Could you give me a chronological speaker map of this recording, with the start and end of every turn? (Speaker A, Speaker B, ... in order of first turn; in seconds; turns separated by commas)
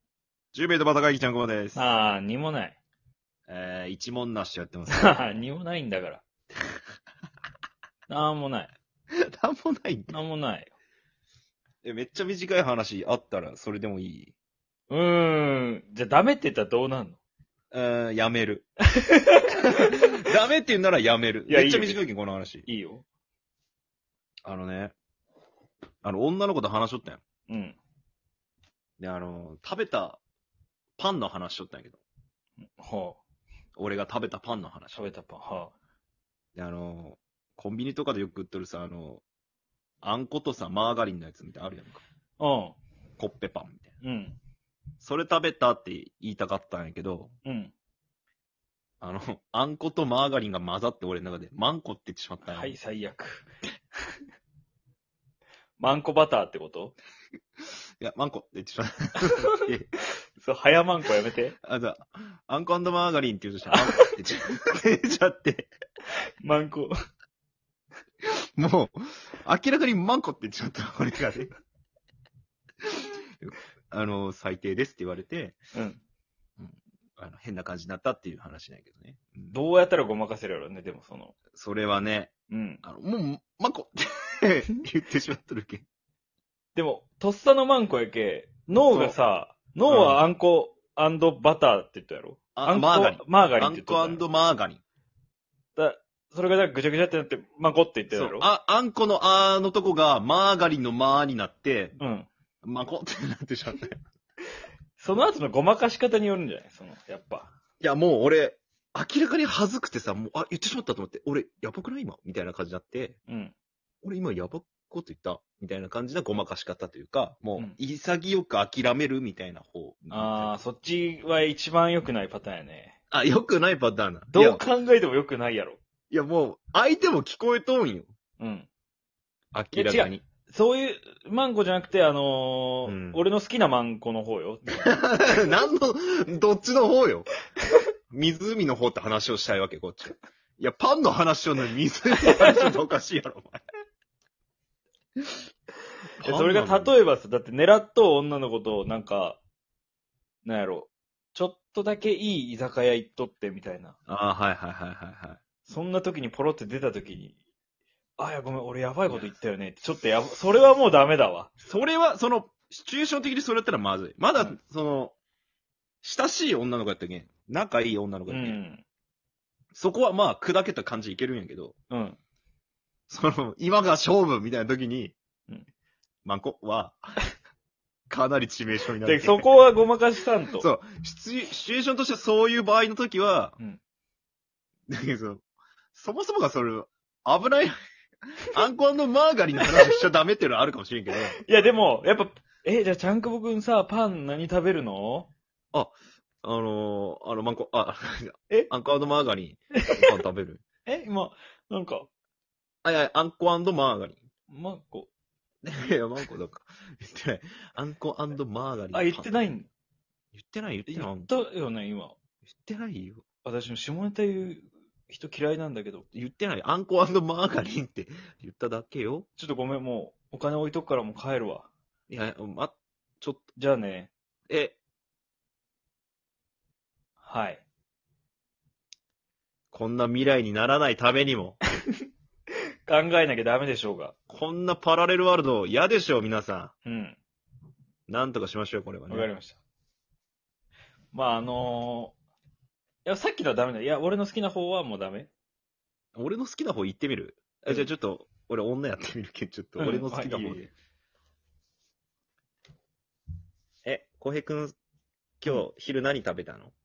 Speaker A: 0.5-1.9, Speaker B: 1.7-2.8, Speaker A: 3.5-5.2, Speaker B: 4.9-6.2, Speaker B: 8.1-8.7, Speaker A: 9.1-10.2, Speaker B: 10.1-10.7, Speaker A: 11.8-14.3, Speaker B: 14.9-17.2, Speaker A: 17.7-18.7, Speaker B: 18.9-20.1, Speaker A: 19.7-22.7, Speaker B: 21.5-22.0, Speaker B: 22.6-23.0, Speaker A: 24.4-24.9, Speaker A: 26.0-27.2, Speaker B: 27.5-27.8, Speaker A: 29.0-30.2, Speaker A: 31.0-32.0, Speaker B: 32.8-33.2, Speaker A: 33.8-35.1, Speaker B: 34.9-35.7, Speaker A: 36.5-39.2, Speaker A: 40.0-42.0, Speaker B: 42.4-42.8, Speaker A: 43.2-43.9, Speaker B: 44.0-44.4, Speaker A: 45.0-47.3, Speaker B: 47.4-47.7, Speaker A: 49.0-52.8, Speaker B: 52.5-53.5, Speaker B: 55.8-56.9, Speaker A: 58.0-59.9, Speaker B: 59.3-59.6, Speaker B: 60.4-61.5, Speaker A: 61.6-65.7, Speaker B: 63.7-64.1, Speaker B: 66.4-66.9, Speaker A: 68.6-71.5, Speaker A: 72.8-75.6, Speaker B: 75.7-76.0, Speaker A: 76.6-79.5, Speaker B: 79.5-81.3, Speaker A: 81.5-85.8, Speaker B: 82.5-82.8, Speaker B: 86.7-94.2, Speaker A: 88.8-89.2, Speaker A: 89.9-90.2, Speaker A: 92.5-94.8, Speaker B: 95.8-98.5, Speaker A: 98.1-102.0, Speaker B: 102.0-102.3, Speaker A: 102.6-104.0, Speaker B: 105.0-107.5, Speaker A: 107.8-113.2, Speaker B: 113.3-113.5, Speaker A: 114.0-120.6, Speaker B: 120.1-123.0, Speaker A: 123.1-124.6, Speaker B: 124.3-125.8, Speaker A: 126.1-128.1, Speaker B: 128.4-128.7, Speaker A: 129.5-130.2, Speaker B: 129.7-135.4, Speaker A: 132.8-133.2, Speaker A: 134.7-137.3, Speaker A: 138.1-143.6, Speaker B: 142.3-142.7, Speaker A: 146.2-146.9, Speaker B: 146.2-149.4, Speaker B: 150.4-153.9, Speaker A: 154.1-155.4, Speaker B: 155.7-157.4, Speaker B: 158.2-161.5, Speaker A: 161.6-165.2, Speaker A: 166.0-168.6, Speaker B: 168.3-168.8, Speaker A: 169.7-171.8, Speaker B: 171.9-172.2, Speaker A: 173.1-175.1, Speaker A: 176.2-177.2, Speaker A: 178.1-179.5, Speaker B: 179.0-180.6, Speaker A: 180.6-183.6, Speaker A: 184.9-185.4, Speaker A: 185.9-187.7, Speaker A: 188.5-191.4, Speaker B: 191.4-195.3, Speaker A: 195.7-200.6, Speaker B: 199.8-200.1, Speaker B: 200.8-202.1, Speaker A: 202.8-204.2, Speaker B: 204.5-205.1, Speaker A: 205.6-209.5, Speaker B: 208.9-209.7, Speaker A: 210.3-211.3, Speaker B: 210.9-212.2, Speaker A: 212.4-213.2, Speaker B: 213.4-216.0, Speaker A: 216.1-219.3, Speaker B: 219.4-221.7, Speaker A: 222.1-223.5, Speaker B: 223.6-224.1, Speaker A: 224.5-224.8, Speaker B: 227.2-227.6, Speaker A: 229.7-231.6, Speaker B: 232.9-234.1, Speaker A: 234.3-236.7, Speaker B: 236.8-237.2, Speaker A: 238.1-239.3, Speaker B: 239.1-239.6, Speaker B: 241.1-242.2, Speaker B: 243.0-245.3, Speaker A: 246.2-250.7, Speaker B: 249.8-250.7, Speaker A: 253.8-254.7, Speaker A: 255.4-256.7